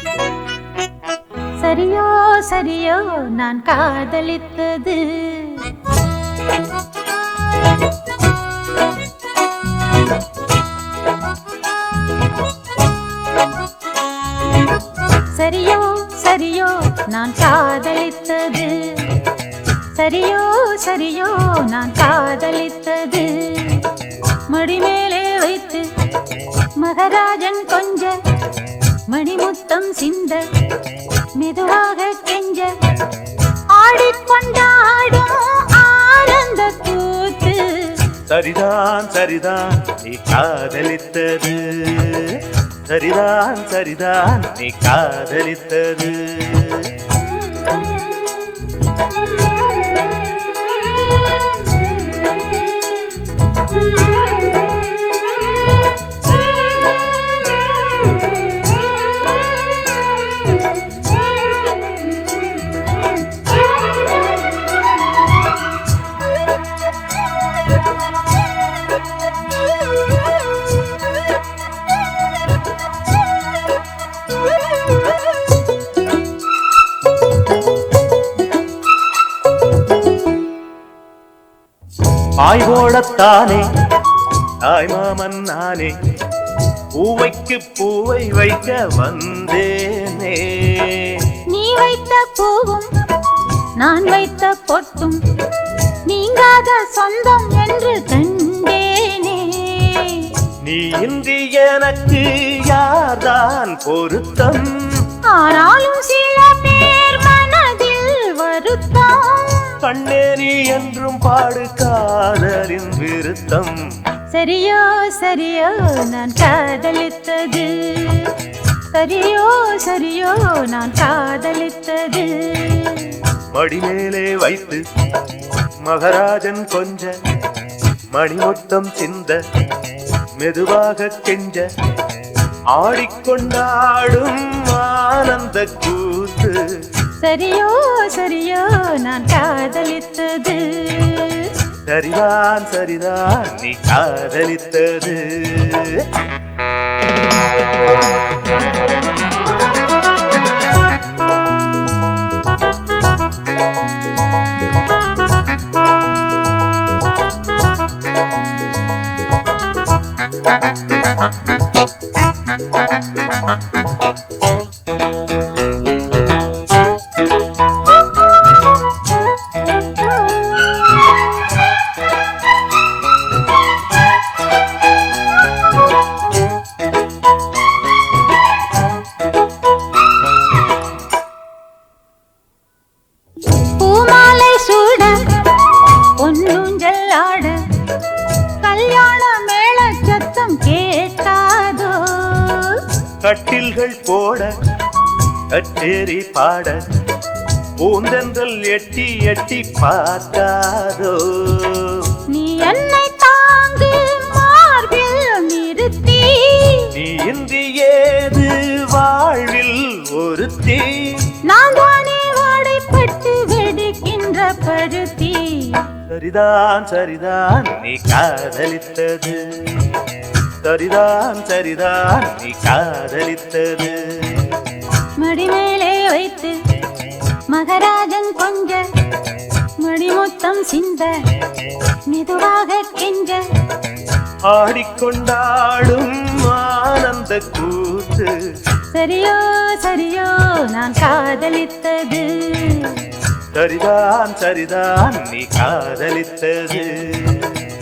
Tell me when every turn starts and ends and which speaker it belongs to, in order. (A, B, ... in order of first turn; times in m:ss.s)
0:01.6-0:05.8 A
0:15.1-0:19.3 A
0:19.9-0:25.9 A
0:26.6-0:28.2 A
0:29.1-0:30.4 A
0:31.4-0:32.8 A
0:33.7-0:38.0 A
0:38.3-0:46.9 B
1:22.4-1:23.6 B
1:24.6-1:25.9 B
1:27.0-1:31.2 B
1:31.5-1:32.9 A
1:33.8-1:35.2 A
1:36.1-1:40.3 A
1:40.6-1:45.0 B
1:45.3-1:49.8 A
1:49.8-1:53.8 B
1:54.3-2:03.2 A
2:03.5-2:04.8 B
2:05.8-2:07.1 B
2:08.1-2:09.4 B
2:10.4-2:11.7 B
2:12.7-2:16.6 B
2:17.2-2:21.6 A
2:21.9-2:26.1 B
3:03.8-3:07.6 A
3:08.6-3:12.8 A
3:13.2-3:14.5 B
3:15.5-3:16.8 B
3:17.8-3:22.2 B
3:22.3-3:26.9 A
3:26.9-3:31.3 B
3:31.5-3:35.9 A
3:36.1-3:39.9 B
3:40.6-3:44.5 B
3:45.2-3:46.6 A
3:47.5-3:48.8 A
3:49.8-3:51.2 A
3:52.1-3:53.4 A
3:54.5-3:58.3 B
3:58.9-4:03.1 A
4:03.5-4:07.7 B